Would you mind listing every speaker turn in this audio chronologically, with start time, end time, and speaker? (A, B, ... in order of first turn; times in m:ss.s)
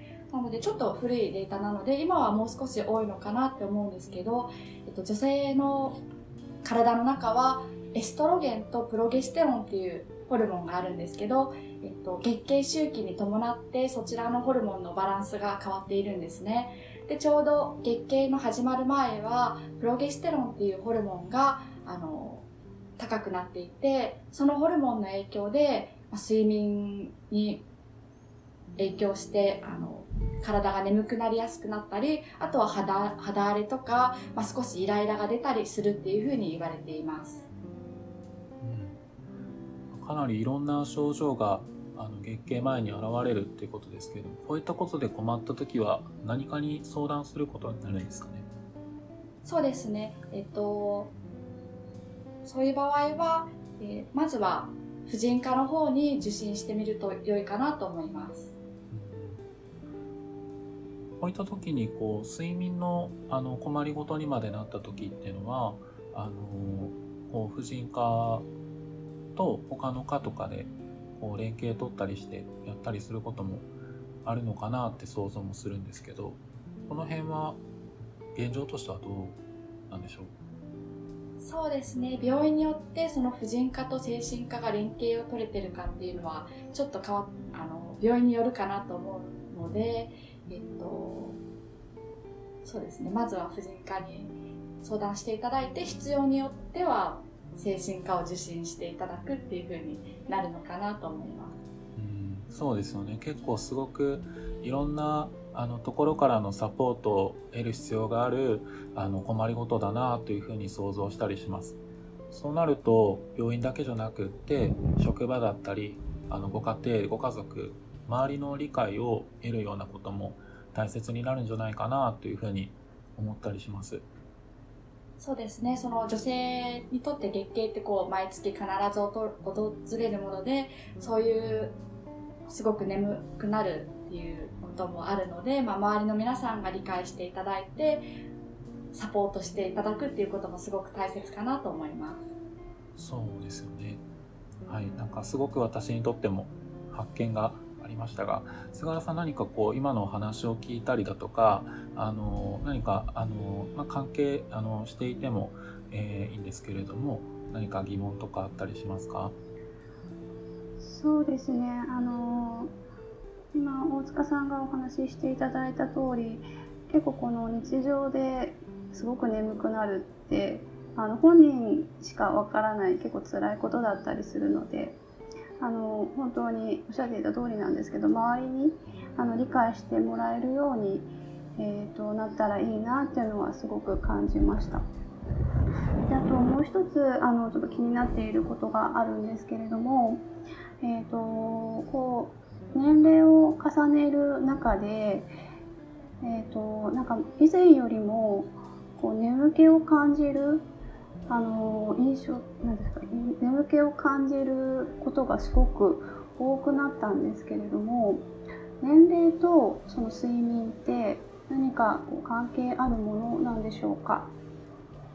0:00.3-0:06.0 A
0:06.6-0:27.7 A
0:28.8-0:37.5 A
0:38.6-0:39.0 B
0:39.9-0:48.5 B
0:49.4-0:51.2 A
0:52.4-0:58.5 A
0:58.9-0:59.4 B
1:01.2-1:08.5 B
1:09.4-1:13.7 B
1:14.2-1:17.6 B
1:18.3-1:20.3 B
1:21.4-1:31.4 A
1:32.6-1:41.6 A
1:42.0-1:51.8 B
1:52.3-2:04.0 B
2:05.2-2:11.8 A
2:12.5-2:18.0 A
2:18.9-2:22.3 A
2:23.0-2:24.0 B
2:24.7-2:39.4 B
2:40.8-2:42.7 C
2:43.5-2:55.0 C
2:55.6-3:04.8 C
3:06.1-3:10.3 C
3:10.8-3:15.3 C
3:16.2-3:20.7 C
3:21.3-3:28.3 C
3:28.8-3:34.3 C